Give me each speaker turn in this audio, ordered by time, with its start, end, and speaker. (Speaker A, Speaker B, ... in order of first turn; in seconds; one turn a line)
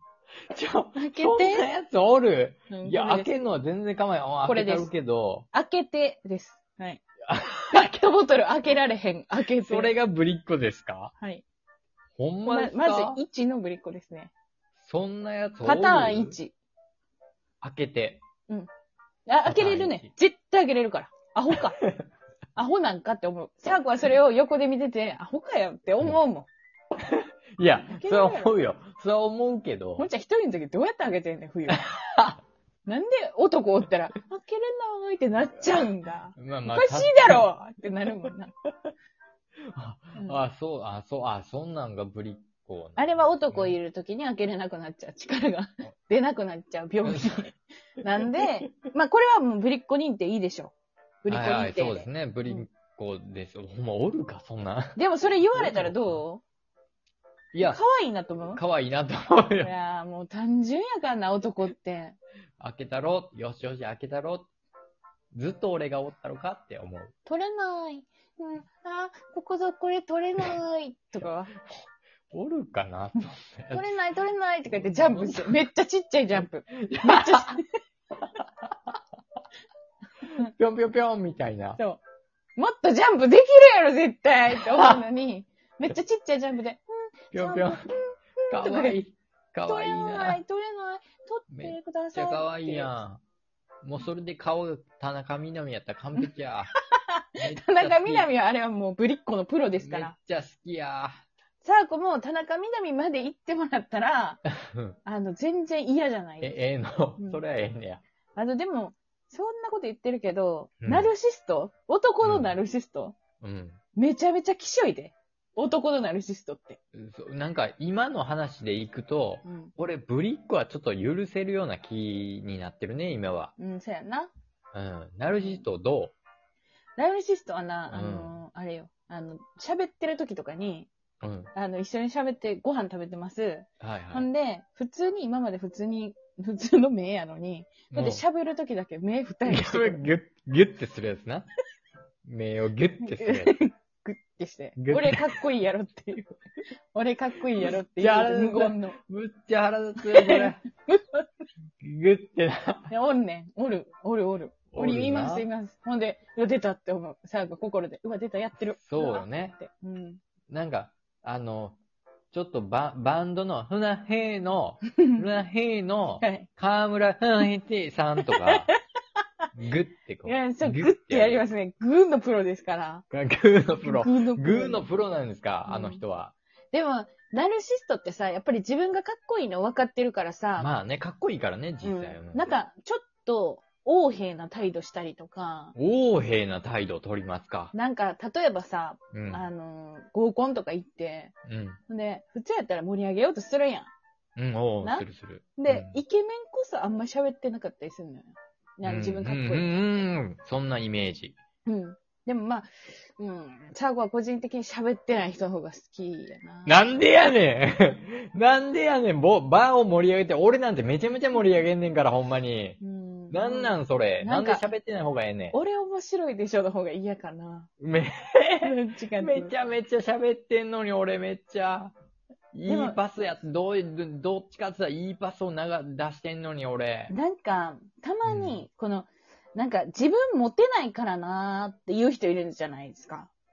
Speaker A: 0.5-5.5
Speaker B: 0.9-1.7
Speaker B: 2.7-3.3
Speaker B: 4.4-4.9
Speaker B: 5.5-7.0
Speaker A: 7.3-8.0
Speaker B: 7.7-9.9
Speaker A: 9.6-11.1
Speaker A: 12.2-13.2
Speaker B: 12.4-14.3
Speaker A: 14.8-16.4
Speaker B: 15.6-16.5
Speaker A: 17.6-18.2
Speaker B: 19.3-21.8
Speaker A: 19.4-20.1
Speaker A: 21.5-22.0
Speaker B: 22.6-26.5
Speaker A: 27.1-30.1
Speaker B: 27.8-28.5
Speaker B: 30.0-31.8
Speaker A: 31.7-32.4
Speaker B: 32.8-38.5
Speaker A: 36.4-37.5
Speaker A: 39.7-43.8
Speaker B: 43.0-50.7
Speaker A: 47.0-47.4
Speaker B: 51.2-52.6
Speaker A: 51.3-55.0
Speaker B: 55.0-56.4
Speaker A: 55.5-56.2
Speaker A: 57.5-57.8
Speaker B: 57.6-58.6
Speaker A: 58.5-59.7
Speaker B: 59.6-62.2
Speaker A: 62.6-64.5
Speaker A: 65.3-67.1
Speaker B: 67.2-71.5
Speaker A: 72.3-73.9
Speaker B: 73.7-77.6
Speaker A: 74.7-75.6
Speaker A: 76.8-77.5
Speaker B: 80.2-80.5
Speaker A: 80.5-81.8
Speaker B: 82.6-89.0
Speaker A: 84.5-85.0
Speaker A: 87.3-87.8
Speaker A: 88.5-90.4
Speaker B: 89.7-93.0
Speaker A: 91.5-93.2
Speaker A: 93.8-96.7
Speaker B: 97.4-100.1
Speaker A: 97.4-98.3
Speaker A: 99.8-101.2
Speaker B: 101.6-104.4
Speaker A: 104.7-105.0
Speaker B: 105.0-106.5
Speaker A: 106.4-108.0
Speaker B: 108.3-113.2
Speaker A: 110.8-111.1
Speaker A: 112.2-112.6
Speaker A: 113.4-113.8
Speaker B: 113.9-116.8
Speaker A: 116.9-123.5
Speaker B: 119.4-119.7
Speaker B: 123.6-124.3
Speaker A: 124.7-126.1
Speaker B: 125.4-125.6
Speaker B: 127.0-130.9
Speaker A: 127.9-128.3
Speaker A: 131.2-131.5
Speaker B: 131.5-140.0
Speaker A: 133.8-134.3
Speaker A: 137.9-138.2
Speaker A: 139.4-141.5
Speaker A: 142.2-143.6
Speaker B: 143.0-146.3
Speaker A: 144.8-145.4
Speaker B: 146.9-149.0
Speaker A: 147.6-150.6
Speaker B: 150.1-151.2
Speaker A: 151.8-152.9
Speaker B: 152.9-160.2
Speaker A: 154.7-155.5
Speaker A: 158.7-159.6
Speaker A: 160.5-161.8
Speaker A: 162.3-168.7
Speaker B: 165.0-165.2
Speaker B: 166.2-166.5
Speaker B: 168.3-168.7
Speaker A: 169.5-171.4
Speaker B: 170.2-173.0
Speaker A: 173.1-176.3
Speaker B: 173.8-174.9
Speaker B: 175.7-176.0
Speaker B: 176.7-180.7
Speaker A: 180.6-182.6
Speaker B: 181.8-185.7
Speaker A: 185.7-187.7
Speaker B: 187.7-191.3
Speaker A: 189.1-189.4
Speaker A: 191.4-191.8
Speaker B: 191.9-193.9
Speaker A: 194.4-196.0
Speaker B: 194.8-199.8
Speaker A: 198.8-201.4
Speaker B: 201.7-207.0
Speaker A: 206.7-215.6
Speaker B: 212.8-214.7
Speaker B: 215.5-217.7
Speaker A: 217.8-221.9
Speaker B: 218.6-219.7
Speaker A: 222.5-227.1
Speaker B: 222.7-223.4
Speaker B: 227.1-233.3
Speaker A: 228.2-228.6